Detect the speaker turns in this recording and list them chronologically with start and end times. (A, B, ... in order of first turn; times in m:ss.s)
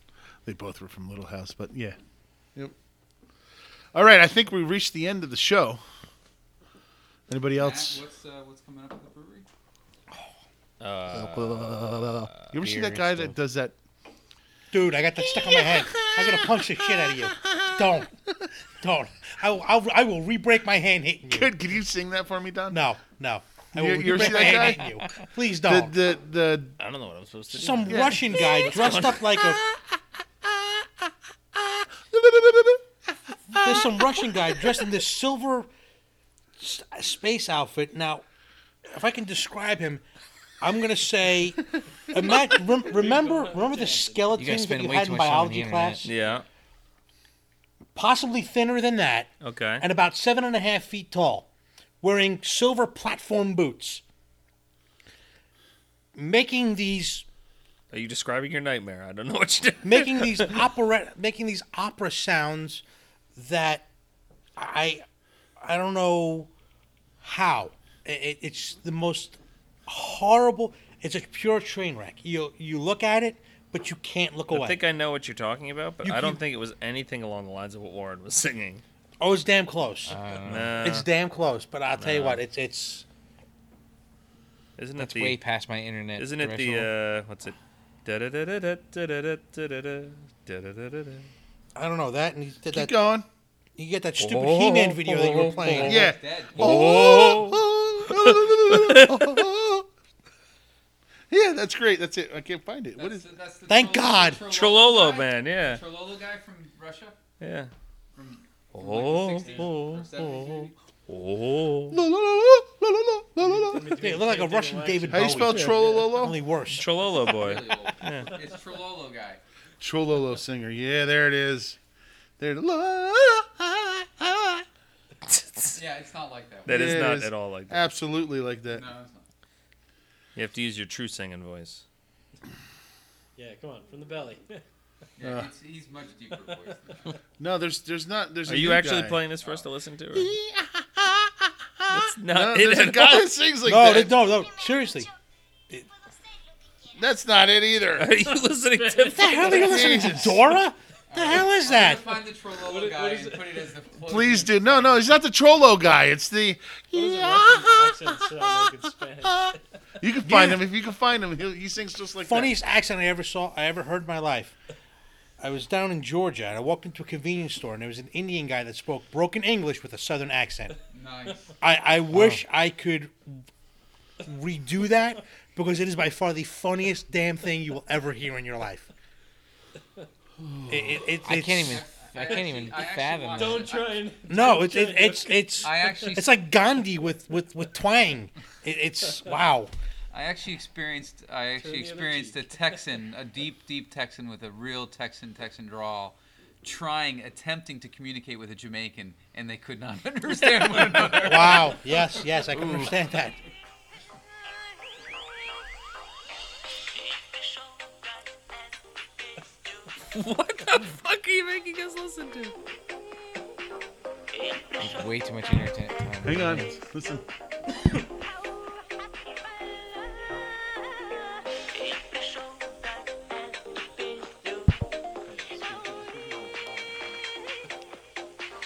0:00.4-0:02.0 A
0:03.9-0:05.8 A
0:07.3-0:08.0 A
0:07.6-0:09.5 B
0:10.8-0:12.5 C
0:11.1-0:13.8 A
0:12.6-0:13.4 D
0:14.7-0:18.1 E
0:15.2-0:17.7 A
0:18.8-0:21.5 E
0:21.3-0:22.8 A
0:22.7-0:26.0 E
0:23.8-0:24.8 A
0:25.6-0:26.8 A
0:26.8-0:29.4 C
0:27.5-0:29.6 E
0:27.9-0:28.7 A
0:30.5-0:30.9 A
0:31.6-0:32.9 A
0:33.5-0:35.7 E
0:33.6-0:34.0 A
0:36.6-0:38.2 E
0:38.9-0:40.0 E
0:40.6-0:46.1 E
0:42.8-0:44.4 F
0:44.3-0:46.1 D
0:46.0-0:46.4 C
0:48.0-0:51.5 E
0:49.4-0:49.8 C
0:52.0-0:54.0 E
0:56.2-0:57.2 E
0:57.9-1:00.6 C
0:59.8-1:02.8 E
1:03.4-1:03.9 E
1:04.6-1:05.0 E
1:05.6-1:06.5 E
1:07.2-1:14.8 E
1:14.5-1:18.8 C
1:16.0-1:16.4 E
1:19.2-1:23.0 E
1:20.1-1:20.8 D
1:20.4-1:21.1 C
1:22.0-1:22.4 C
1:24.8-1:25.4 C
1:25.0-1:26.9 D
1:26.2-1:31.3 C
1:31.8-1:33.0 E
1:32.7-1:33.3 A
1:33.8-1:36.1 E
1:34.2-1:35.9 C
1:35.4-1:37.0 B
1:35.8-1:39.9 A
1:36.6-1:39.5 C
1:41.3-1:43.3 A
1:43.0-1:47.2 B
1:43.7-1:44.5 E
1:44.5-1:45.8 C
1:47.4-1:47.7 C
1:48.1-1:50.8 B
1:48.7-1:52.0 C
1:49.4-1:49.9 F
1:51.9-1:54.1 A
1:53.4-1:55.8 F
1:53.9-1:57.0 E
1:55.1-1:56.4 A
1:55.6-1:58.3 C
1:57.2-1:59.4 B
1:59.8-2:01.8 A
2:02.4-2:04.6 A
2:05.4-2:05.8 C
2:05.7-2:07.0 B
2:06.7-2:07.8 C
2:06.7-2:08.9 A
2:08.7-2:09.3 B
2:10.4-2:11.8 C
2:13.4-2:14.6 F
2:15.2-2:17.2 B
2:15.2-2:15.5 A
2:17.4-2:19.2 A
2:18.5-2:20.3 C
2:20.1-2:24.2 A
2:21.9-2:23.3 C
2:23.6-2:25.1 E
2:26.9-2:28.1 A
2:28.0-2:30.2 C
2:28.2-2:29.4 F
2:29.0-2:32.2 E
2:29.4-2:30.4 A
2:31.1-2:35.2 B
2:32.6-2:33.8 F
2:34.0-2:38.1 A
2:36.9-2:39.6 F
2:39.2-2:42.6 A
2:40.2-2:40.6 E
2:42.2-2:44.6 E
2:45.4-2:50.8 E
2:50.9-2:51.5 B
2:51.6-2:53.4 E
2:54.2-2:58.9 E
3:00.7-3:01.8 E
3:01.2-3:03.8 D
3:01.6-3:04.0 B
3:03.4-3:05.7 F
3:04.3-3:09.7 E
3:05.6-3:06.4 B
3:10.1-3:21.9 B
3:11.6-3:12.8 F
3:21.2-3:23.4 E
3:22.5-3:23.0 B
3:30.1-3:32.6 C
3:34.8-3:36.7 D
3:36.2-3:37.2 A
3:45.3-3:47.2 F